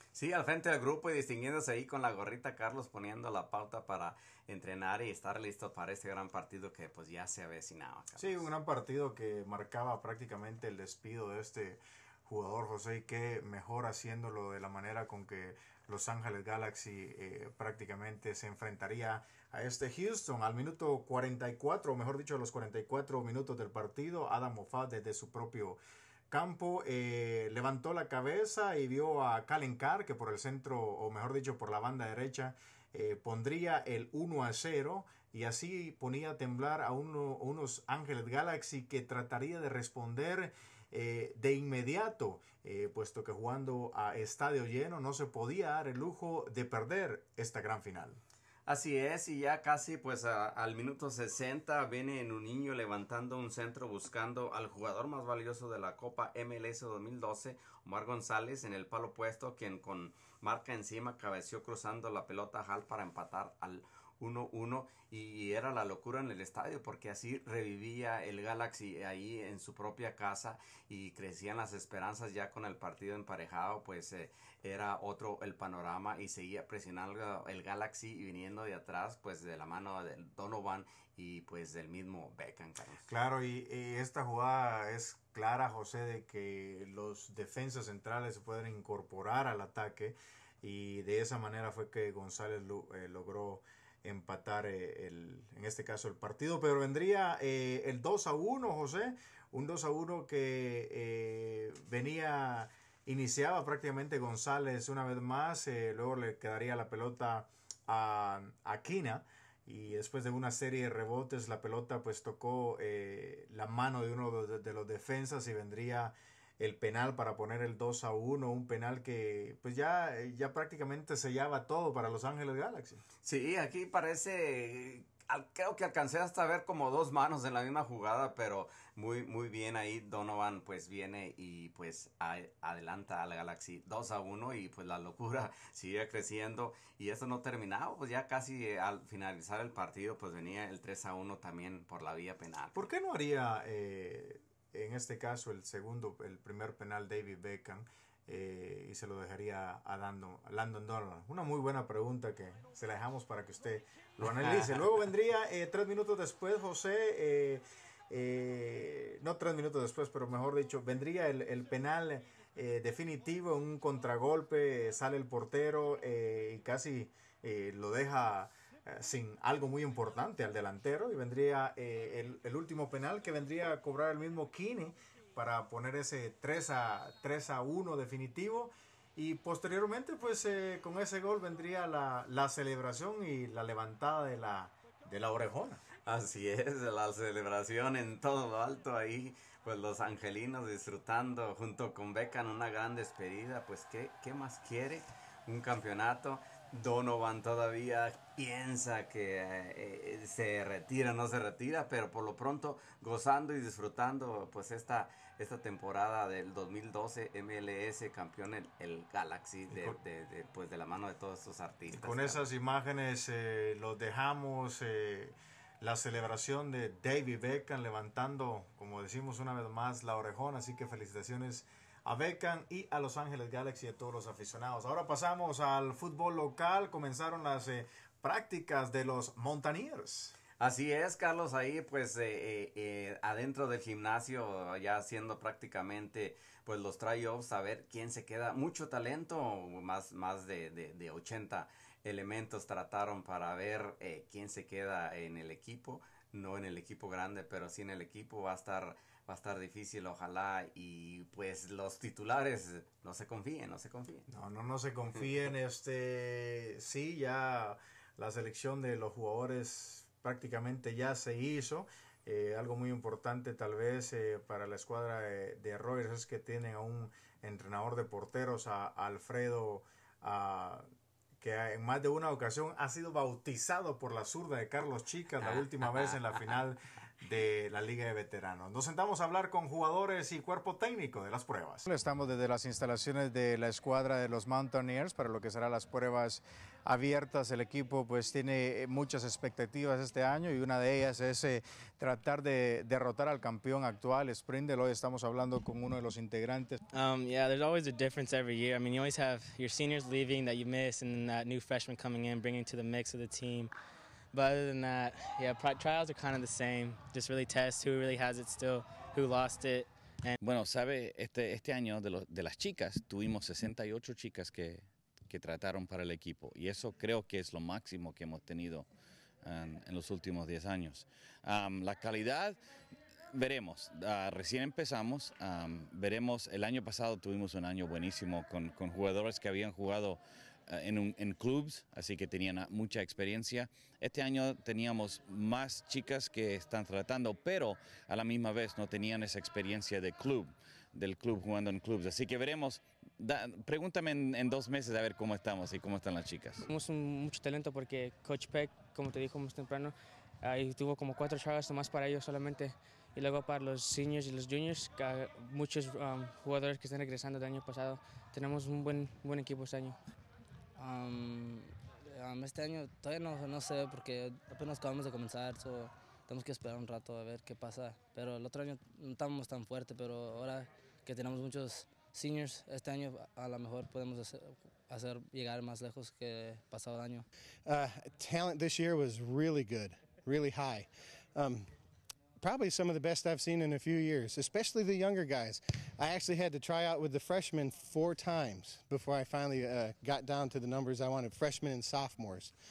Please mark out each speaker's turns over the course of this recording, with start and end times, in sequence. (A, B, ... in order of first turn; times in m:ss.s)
0:00.2-0:08.5 A
0:08.2-0:25.8 B
0:26.3-0:48.2 B
0:48.7-1:23.1 A
1:23.1-2:03.0 B
2:03.2-2:22.8 A
2:22.7-3:05.8 B
3:06.0-3:32.4 A
3:29.7-3:30.0 B
3:31.9-3:50.4 B
3:50.6-4:14.3 A
4:14.3-4:30.9 B
4:31.4-4:56.8 B
4:56.9-5:03.7 C
5:04.3-5:10.4 C
5:10.4-5:18.9 D
5:19.4-5:22.6 D
5:23.3-5:46.6 D
5:46.6-6:00.0 C
6:00.8-6:17.3 E
6:17.6-6:21.7 F
6:22.4-6:32.5 F